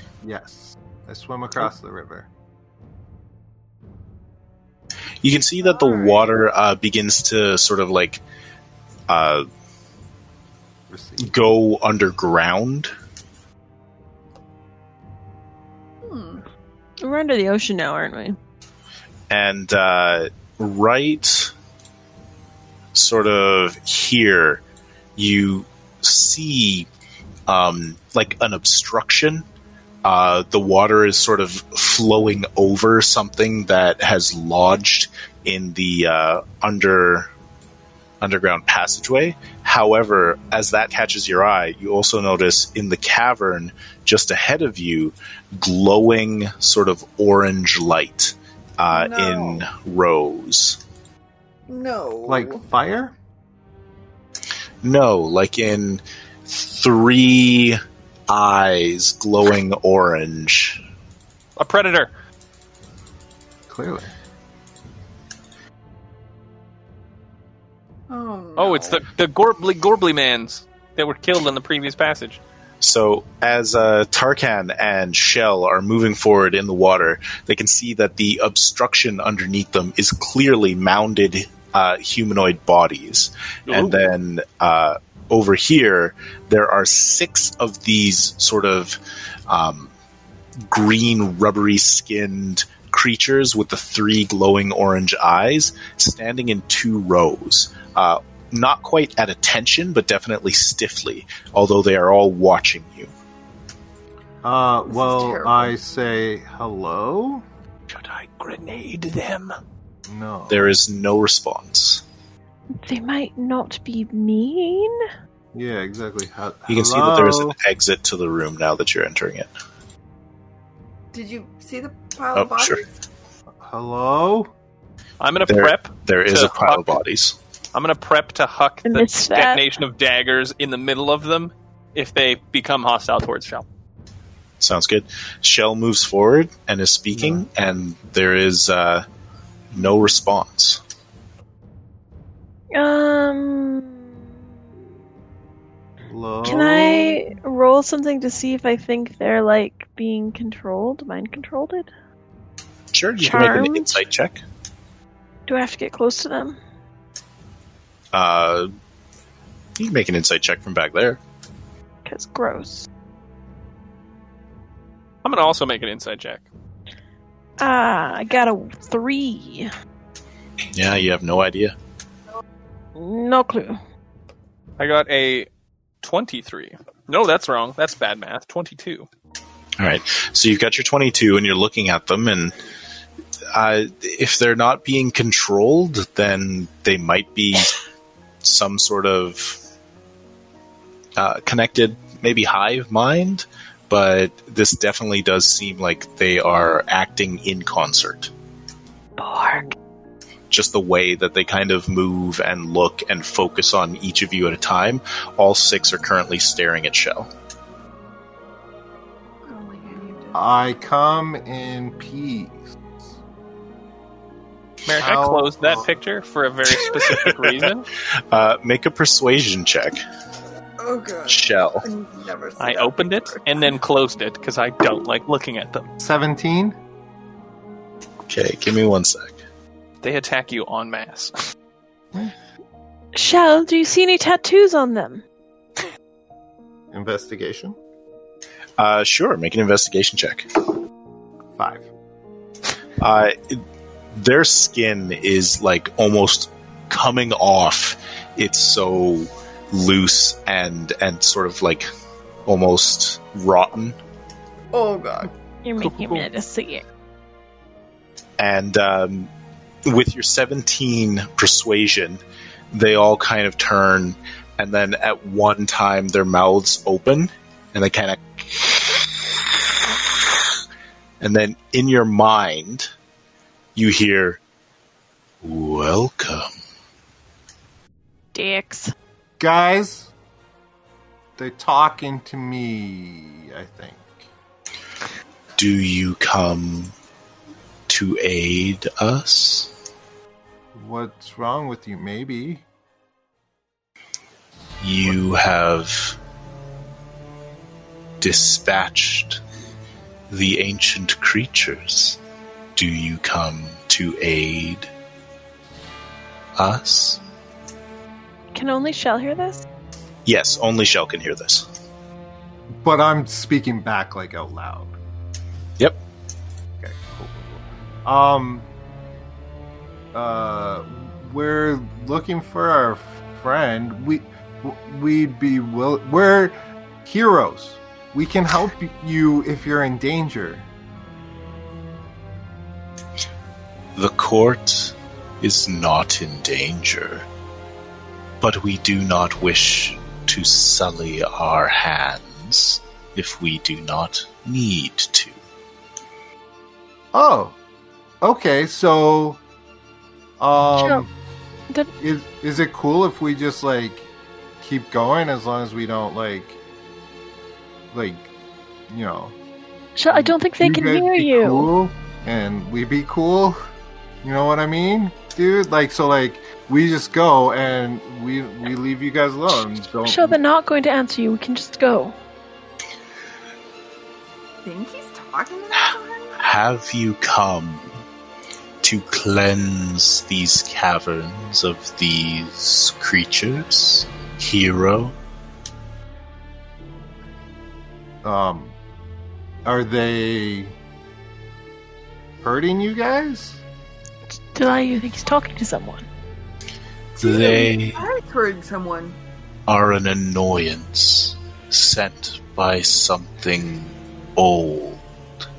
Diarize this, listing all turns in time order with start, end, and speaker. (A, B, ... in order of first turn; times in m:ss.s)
0:00.2-0:02.3 A
0:05.2-0:08.2 B
0:05.6-0:06.3 C
0:09.1-0:09.4 B
0:10.9-0:11.3 A
0:11.2-0:12.9 B
0:16.0-0:16.4 C
0:17.0-0:18.4 D
0:19.3-0:21.5 B
0:22.9-0:24.6 B
0:25.2-0:26.9 B
0:27.5-0:29.4 B
0:30.0-0:37.3 B
0:38.2-0:50.8 B
0:48.9-0:49.6 C
0:51.7-0:52.6 C
0:52.2-0:53.1 A
0:54.8-1:00.8 B
1:01.6-1:02.1 E
1:03.7-1:04.1 A
1:08.1-1:09.0 C
1:08.6-1:12.4 E
1:12.8-1:29.0 B
1:23.7-1:24.0 E
1:29.5-1:29.9 B
1:30.7-1:43.1 B
1:44.4-1:47.4 A
1:44.9-1:45.7 C
1:47.9-1:49.6 E
1:50.1-1:50.7 A
1:50.5-1:52.0 B
1:52.8-1:55.0 D
1:55.5-1:57.6 A
1:56.7-1:59.5 B
2:01.1-2:02.9 C
2:02.3-2:02.8 B
2:03.6-2:04.5 A
2:05.2-2:07.0 E
2:05.5-2:07.4 B
2:07.7-2:13.6 E
2:08.8-2:09.6 D
2:14.6-2:19.0 B
2:17.1-2:17.4 A
2:19.7-2:20.8 B
2:22.7-2:24.0 D
2:26.0-2:27.3 A
2:26.4-2:31.9 D
2:32.9-2:34.4 B
2:33.2-2:34.0 D
2:35.5-2:36.6 D
2:38.1-2:38.7 B
2:39.8-2:41.2 B
2:42.0-2:42.9 D
2:45.2-2:46.4 E
2:47.6-2:49.7 D
2:50.7-2:51.7 B
2:53.0-2:53.8 D
2:54.8-2:55.5 E
2:56.0-2:59.1 E
2:59.8-3:02.5 B
3:03.5-3:07.8 B
3:08.4-3:09.6 B
3:11.2-3:18.3 B
3:19.2-3:19.7 D
3:20.5-3:27.3 B
3:29.4-3:30.4 C
3:30.3-3:33.1 A
3:34.8-3:37.9 E
3:35.0-3:35.9 A
3:36.9-3:37.4 B
3:38.3-3:40.0 B
3:40.8-3:43.6 C
3:41.3-3:41.8 B
3:42.6-3:45.9 E
3:46.0-3:46.8 A
3:48.3-3:49.4 B
3:50.0-3:51.3 E
3:53.1-3:55.2 D
3:56.9-3:57.8 A
3:58.8-4:00.5 B
4:01.5-4:01.9 A
4:03.0-4:03.6 B
4:04.1-4:11.9 B
4:12.4-4:14.0 B
4:14.7-4:15.3 C
4:15.6-4:16.8 D
4:15.8-4:16.2 E
4:18.4-4:19.3 B
4:19.8-4:29.0 B
4:31.2-4:32.9 B
4:33.7-4:34.4 B
4:35.4-4:36.5 B
4:38.3-4:38.9 D
4:39.4-4:40.1 A
4:41.4-4:44.2 A
4:45.6-4:46.9 B
4:47.9-4:49.7 B
4:50.7-4:52.6 A
4:54.8-4:56.2 B
4:58.2-4:59.4 B
5:00.3-5:02.2 B
5:02.7-5:04.9 B
5:06.6-5:07.2 B
5:08.5-5:09.6 D
5:10.2-5:11.6 B
5:12.8-5:15.0 A
5:16.8-5:18.7 A
5:20.1-5:30.7 A
5:33.9-5:37.3 B
5:38.4-5:45.4 B
5:47.1-5:47.6 A
5:48.2-5:49.4 A
5:50.4-5:51.1 A
5:50.8-5:51.0 D
5:52.0-5:54.1 A
5:54.6-5:56.6 A
5:57.9-5:58.3 A
5:58.9-5:59.3 A
6:00.0-6:01.7 D
6:00.1-6:03.6 A
6:04.2-6:10.4 A
6:10.0-6:12.2 D
6:14.6-6:16.3 C
6:15.8-6:18.0 B
6:18.8-6:25.2 B
6:28.2-6:28.8 A
6:29.6-6:30.7 A
6:32.4-6:33.6 A
6:34.5-6:36.1 D
6:37.2-6:39.2 C
6:37.2-6:38.0 B
6:39.7-6:45.0 B